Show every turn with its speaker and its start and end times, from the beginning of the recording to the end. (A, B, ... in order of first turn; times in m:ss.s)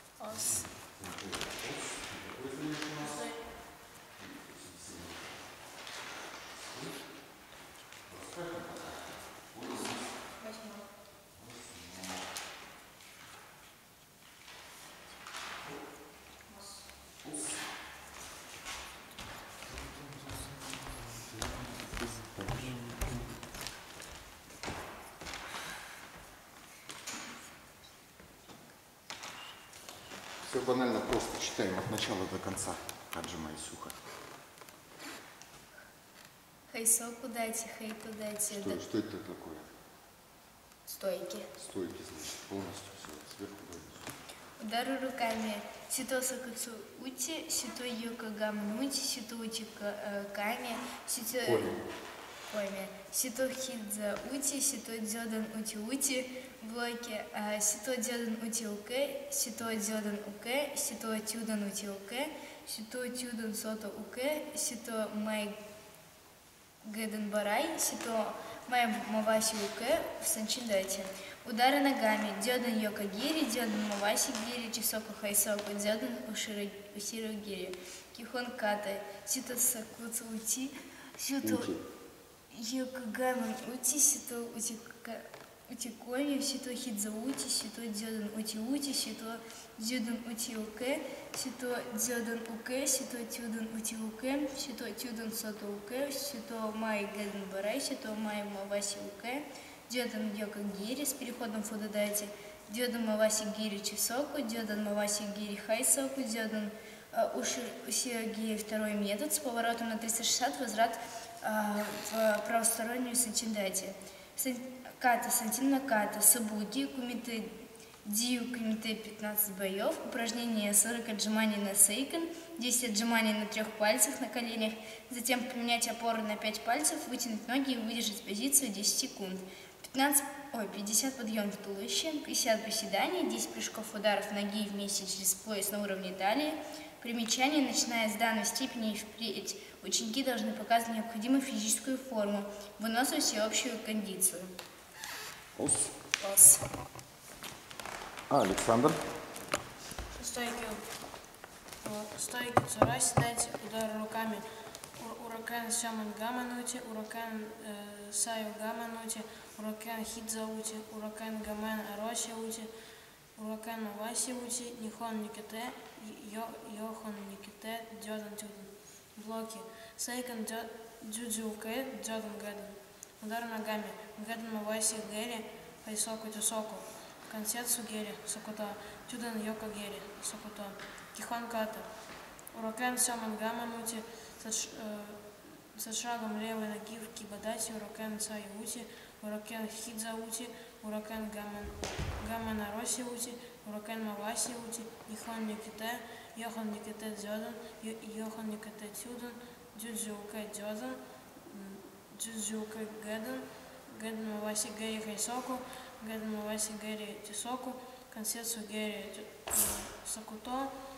0:00.3-0:05.5 A
0:03.0-0:03.4 B
0:06.7-0:07.4 A
0:08.0-0:10.5 A
0:11.3-0:12.3 A
0:17.2-0:17.7 A
0:19.7-0:23.2 A
0:30.4-0:34.0 A
0:36.7-0:38.8 C
0:38.5-0:39.7 A
0:40.9-0:41.5 C
0:41.6-0:44.1 A
0:44.6-0:51.8 C
0:51.4-0:51.8 A
0:52.5-1:05.6 C
1:06.8-1:21.7 C
1:21.4-1:21.8 A
1:22.5-2:24.5 C
2:25.6-2:25.9 A
2:26.2-2:26.6 C
2:28.3-2:29.0 A
2:30.1-2:30.8 B
2:31.8-2:42.7 B
2:43.3-3:01.9 B
3:02.5-3:30.7 B